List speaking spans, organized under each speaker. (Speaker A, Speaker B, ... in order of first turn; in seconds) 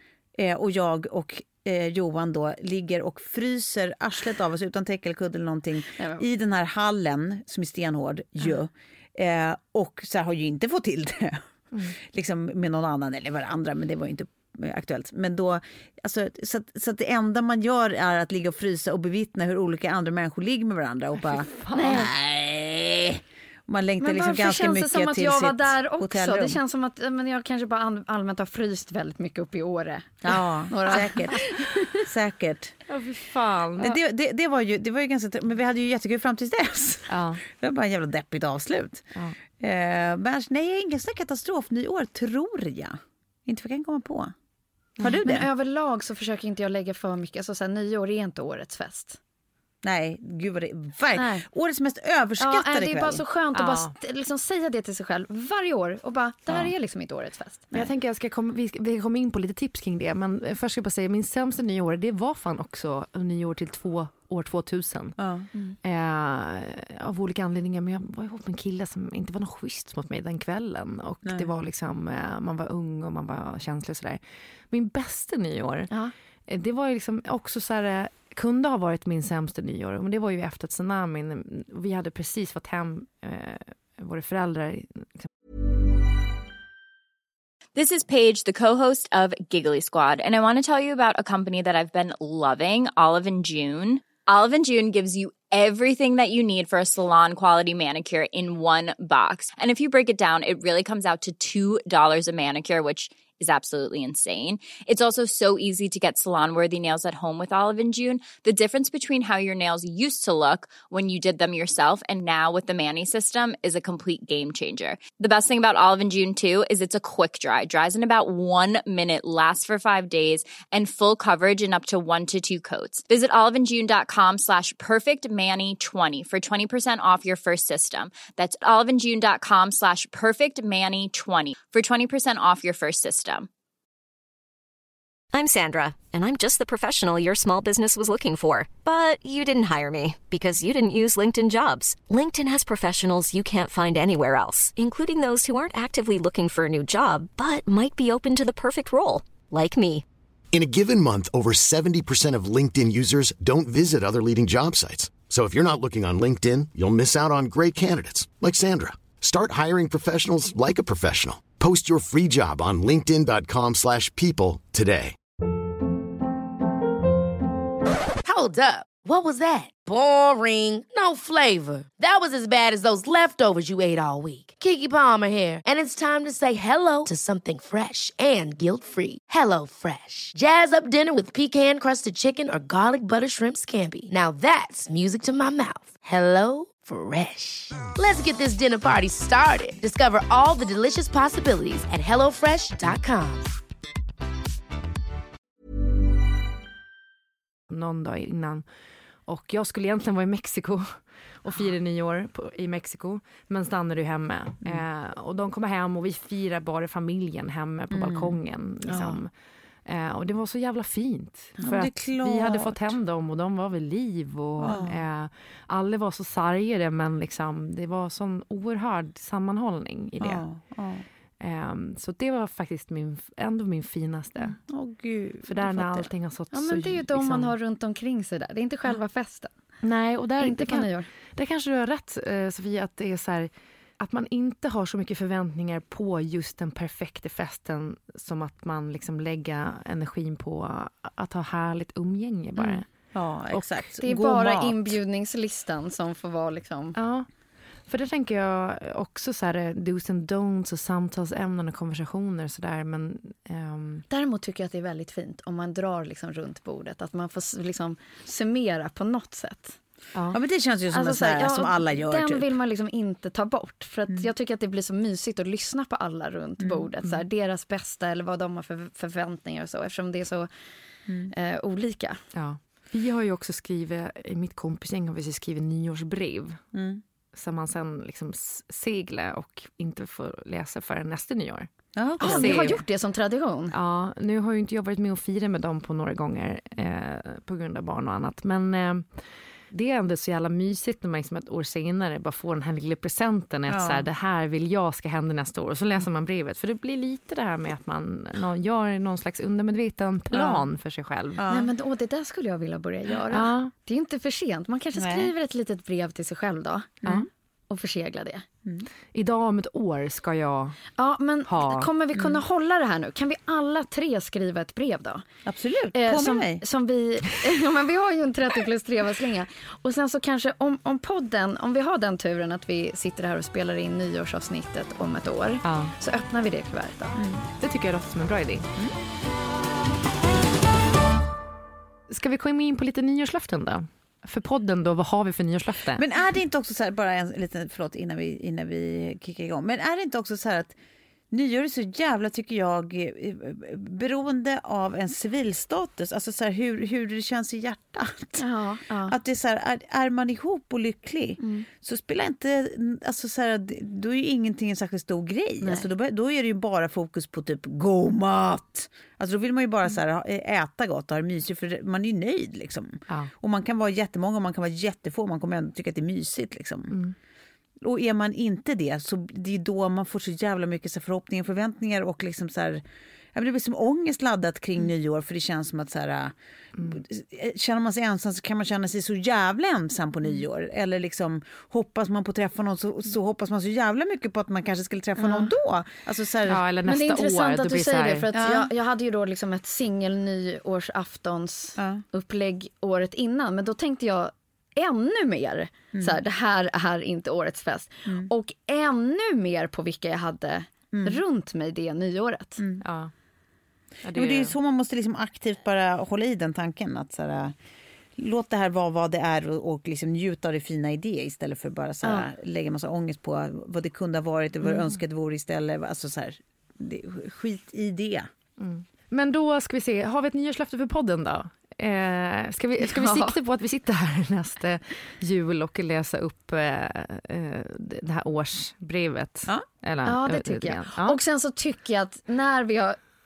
Speaker A: 0.4-26.6, 30.2-31.4, 31.9-32.8, 33.8-44.3, 45.0-45.5, 49.8-53.2, 65.2-65.5, 207.9-208.4, 211.6-212.9, 214.6-215.0, 220.2-221.0, 224.6-226.1, 242.6-245.0, 260.3-262.5, 266.6-266.9, 271.1-271.3, 276.7-277.0, 281.9-282.8, 293.7-294.0, 300.3-300.6, 301.4-301.7, 305.0-305.3, 312.1-312.4, 315.4-316.6, 327.1-327.4, 335.9-340.8, 341.3-348.4, 349.1-366.9, 367.8-372.8, 373.3-386.6, 388.3-388.7, 391.8-392.0, 395.9-396.2, 400.9-401.2, 404.1-407.5, 408.2-418.3
Speaker B: 6.0-6.2, 21.8-22.1, 24.0-31.9, 45.2-49.2, 51.1-51.5, 52.4-57.9, 226.5-229.5, 230.4-231.1, 244.0-246.9, 254.1-259.8, 260.9-270.5, 271.3-272.2, 282.2-283.7, 301.5-307.0, 307.7-308.4, 311.0-315.2, 315.9-327.2, 348.4-349.1, 351.4-351.7, 355.6-355.9, 385.2-385.5, 386.8-402.6, 422.8-423.4, 430.0-433.0
Speaker C: 21.3-22.1, 32.9-34.0, 37.1-37.4, 53.5-53.9, 57.7-65.2, 65.8-75.9, 76.5-85.3, 197.7-198.6, 199.3-209.3, 209.8-220.4, 221.4-224.6, 225.4-227.5, 229.8-242.8, 243.5-243.8, 246.9-247.3, 247.8-254.0, 272.3-276.6, 277.3-282.8, 283.7-289.1, 289.7-301.4, 303.3-303.7, 309.1-310.8, 311.4-311.9, 325.6-325.9, 327.6-328.7, 332.1-336.0, 366.9-367.1, 386.4-388.3, 402.8-403.1, 404.0-404.5, 418.6-431.2
Speaker D: 87.7-133.5
Speaker E: 135.3-150.0
Speaker F: 150.5-165.2
Speaker G: 168.2-193.5